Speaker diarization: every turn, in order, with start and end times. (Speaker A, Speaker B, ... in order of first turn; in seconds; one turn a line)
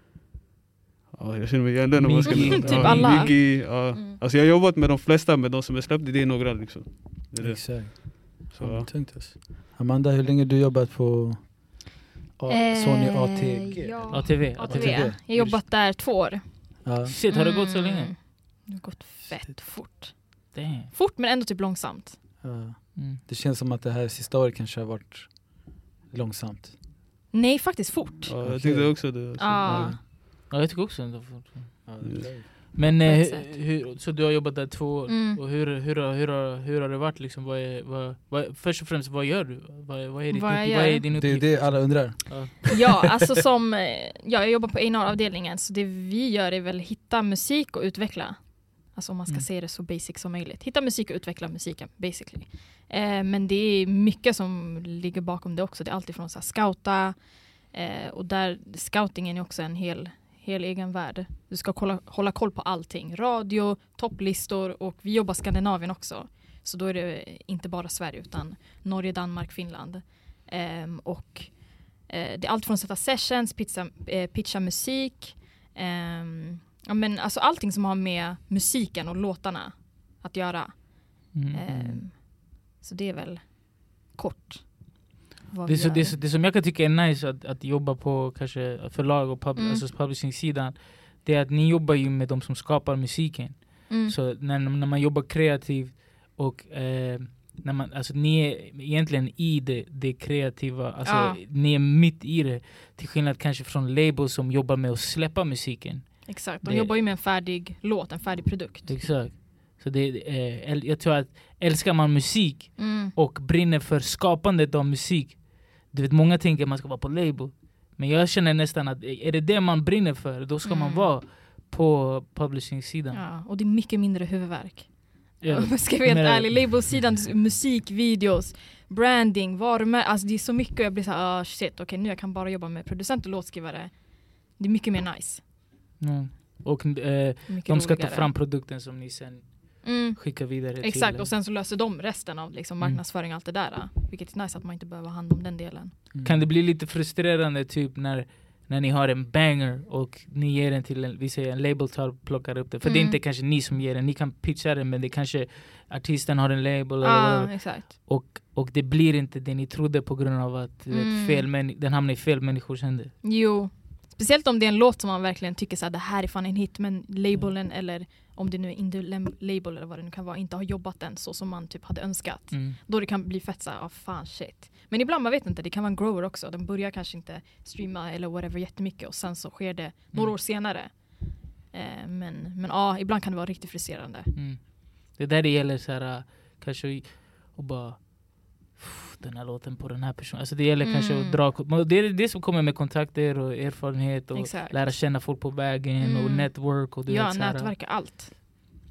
Speaker A: 1.1-8.9
Speaker B: 2.0-3.3
Speaker C: 2.3-4.2
Speaker D: 2.4-3.2
Speaker D: 7.4-15.8
Speaker C: 12.5-22.2
Speaker B: 14.1-15.2
Speaker D: 16.8-17.1
Speaker B: 17.1-18.2
Speaker B: 20.5-20.9
Speaker D: 22.4-26.8
Speaker B: 22.9-23.2
Speaker C: 27.3-28.4
Speaker A: 28.2-30.0
Speaker D: 28.4-30.0
Speaker C: 29.4-30.0
Speaker B: 30.5-42.6
Speaker D: 31.9-32.7
Speaker A: 32.0-32.3
Speaker C: 33.0-33.5
Speaker C: 35.1-35.4
Speaker C: 40.3-41.0
Speaker D: 41.1-42.7
Speaker C: 42.7-86.3
Speaker B: 81.3-81.6
Speaker D: 81.7-82.0
Speaker B: 85.7-107.0
Speaker C: 89.6-89.8
Speaker C: 93.9-94.2
Speaker C: 101.0-101.4
Speaker C: 106.3-109.0
Speaker B: 108.9-123.2
Speaker C: 112.8-113.2
Speaker C: 120.6-121.1
Speaker C: 123.1-135.4
Speaker B: 125.4-126.5
Speaker B: 136.0-141.3
Speaker C: 137.5-138.3
Speaker C: 139.8-146.0
Speaker D: 146.1-146.5
Speaker B: 146.2-163.2
Speaker C: 152.8-153.2
Speaker C: 157.0-157.9
Speaker C: 160.9-161.4
Speaker C: 163.2-184.3
Speaker B: 167.3-167.6
Speaker B: 172.5-172.8
Speaker B: 184.3-197.7
Speaker C: 190.8-191.4
Speaker C: 194.3-195.4
Speaker C: 196.0-198.3